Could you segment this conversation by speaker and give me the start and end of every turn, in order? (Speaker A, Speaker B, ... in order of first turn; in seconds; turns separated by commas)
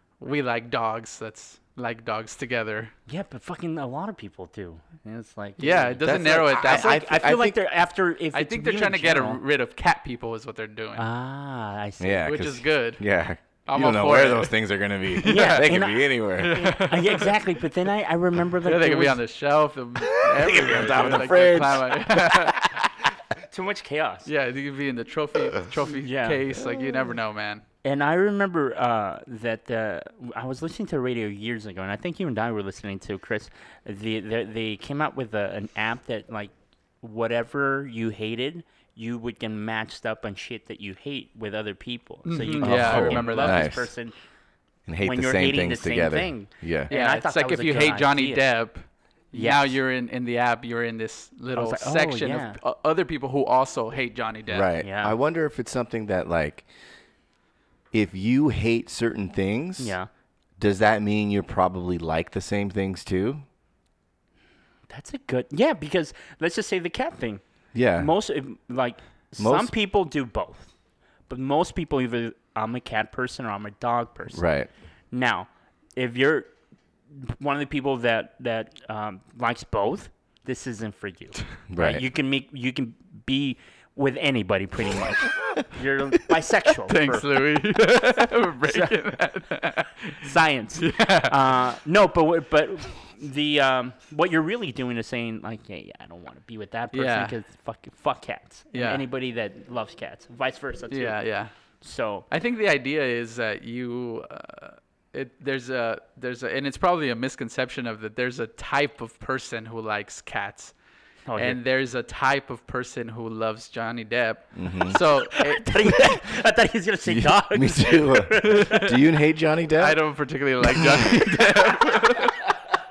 Speaker A: 0.2-2.9, Speaker B: 3.1-9.4, Speaker A: 5.6-7.3, Speaker C: 6.0-7.6, Speaker A: 8.3-11.0, Speaker B: 11.0-12.3, Speaker C: 12.0-16.6, Speaker A: 12.3-13.0, Speaker A: 13.7-14.6, Speaker A: 15.1-15.7, Speaker B: 15.2-19.2, Speaker A: 16.4-17.4, Speaker A: 18.6-22.6, Speaker C: 20.0-23.1, Speaker B: 23.5-24.3, Speaker A: 24.3-27.6, Speaker B: 25.9-26.5, Speaker B: 27.8-44.1, Speaker A: 42.3-43.7, Speaker C: 42.6-43.9, Speaker C: 44.9-46.9, Speaker B: 45.0-48.4, Speaker A: 46.9-54.7, Speaker B: 49.3-49.7, Speaker B: 51.5-52.6, Speaker C: 54.5-56.7, Speaker B: 54.8-55.1, Speaker C: 57.9-60.0, Speaker B: 59.8-60.1, Speaker C: 60.6-63.5, Speaker B: 64.9-67.4, Speaker C: 67.7-68.1, Speaker B: 68.0-70.7, Speaker C: 69.4-69.7, Speaker B: 71.3-74.4, Speaker C: 74.3-74.7, Speaker B: 75.1-76.5, Speaker B: 77.1-87.3, Speaker C: 81.7-82.0, Speaker A: 86.9-90.2, Speaker B: 88.7-88.9, Speaker B: 90.2-101.2, Speaker A: 90.8-91.4, Speaker A: 96.9-97.3, Speaker A: 98.7-99.0, Speaker A: 100.9-101.5, Speaker B: 101.8-102.3, Speaker A: 102.3-110.7, Speaker B: 111.3-111.6, Speaker A: 111.4-116.0, Speaker C: 114.6-115.0, Speaker B: 115.3-118.9, Speaker C: 117.0-120.0, Speaker A: 118.5-118.9, Speaker A: 119.8-122.5, Speaker C: 120.8-121.2